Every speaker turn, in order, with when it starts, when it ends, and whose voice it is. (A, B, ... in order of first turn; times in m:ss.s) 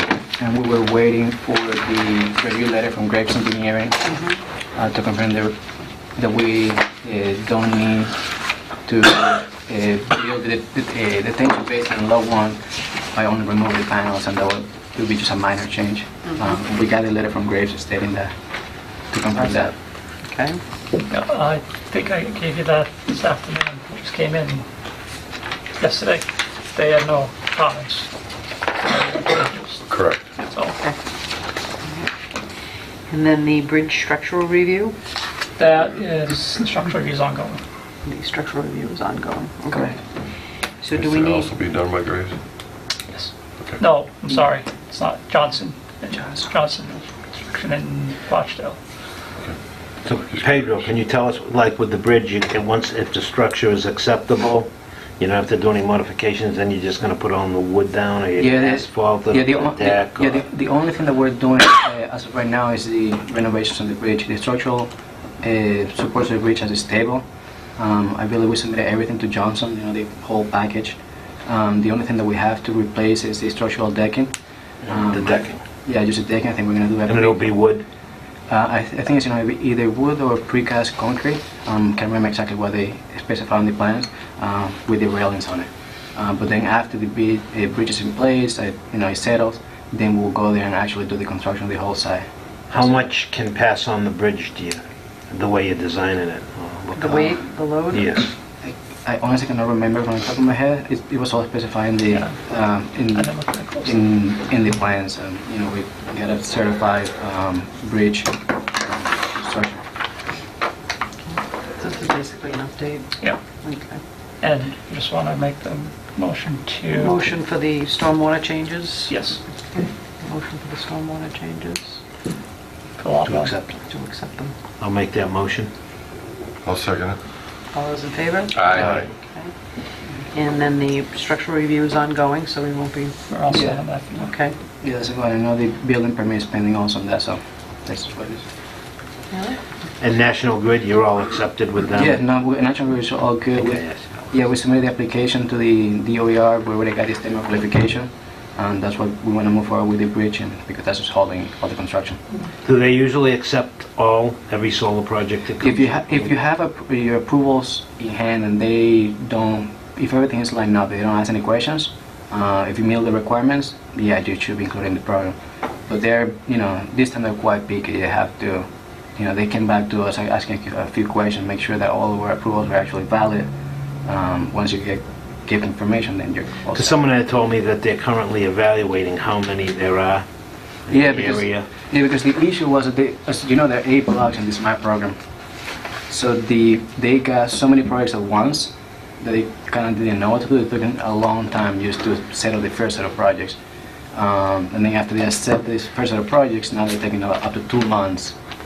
0:00.4-0:04.1 A
0:04.1-0:04.4 B
0:04.7-0:05.6 A
0:06.2-0:08.2 A
0:08.8-0:12.6 A
0:13.1-0:18.3 A
0:19.1-0:19.7 A
0:19.3-0:19.7 B
0:20.2-0:20.6 B
0:21.1-0:24.6 C
0:25.8-0:28.1 C
0:28.8-0:30.8 C
0:29.9-0:30.2 D
0:31.8-0:32.1 B
0:33.1-0:35.0 B
0:35.6-0:37.6 C
0:38.0-0:40.0 B
0:40.8-0:41.5 B
0:40.9-0:42.4 D
0:43.1-0:48.8 C
0:50.0-1:00.4 E
0:50.3-0:50.6 D
0:58.4-1:04.9 A
1:05.4-1:07.2 A
1:07.8-1:14.3 A
1:14.8-1:15.6 E
1:14.9-1:17.5 A
1:17.1-1:17.8 E
1:18.5-1:32.3 A
1:32.7-1:37.3 E
1:37.0-1:38.2 B
1:37.9-1:38.3 E
1:38.6-1:43.3 A
1:43.1-1:44.0 C
1:43.8-1:49.8 A
1:51.3-1:54.0 B
1:54.4-1:57.2 C
1:56.9-1:59.2 B
1:59.1-1:59.4 C
1:59.7-2:02.0 B
2:03.0-2:03.5 C
2:03.2-2:03.7 E
2:03.7-2:04.6 B
2:04.8-2:05.7 E
2:06.6-2:07.2 D
2:07.7-2:09.5 B
2:08.6-2:09.0 D
2:10.3-2:13.4 B
2:13.3-2:14.3 C
2:13.5-2:13.8 A
2:14.1-2:14.5 B
2:14.8-2:18.4 A
2:19.3-2:19.6 B
2:20.0-2:22.2 E
2:21.9-2:32.2 A
2:23.6-2:24.3 E
2:32.6-2:36.2 E
2:35.6-2:45.4 A
2:45.9-2:53.5 A
2:54.0-2:57.0 A
2:56.7-3:00.2 E
3:00.9-3:01.7 E
3:00.9-3:05.2 A
3:06.1-3:13.6 A
3:14.1-3:18.4 A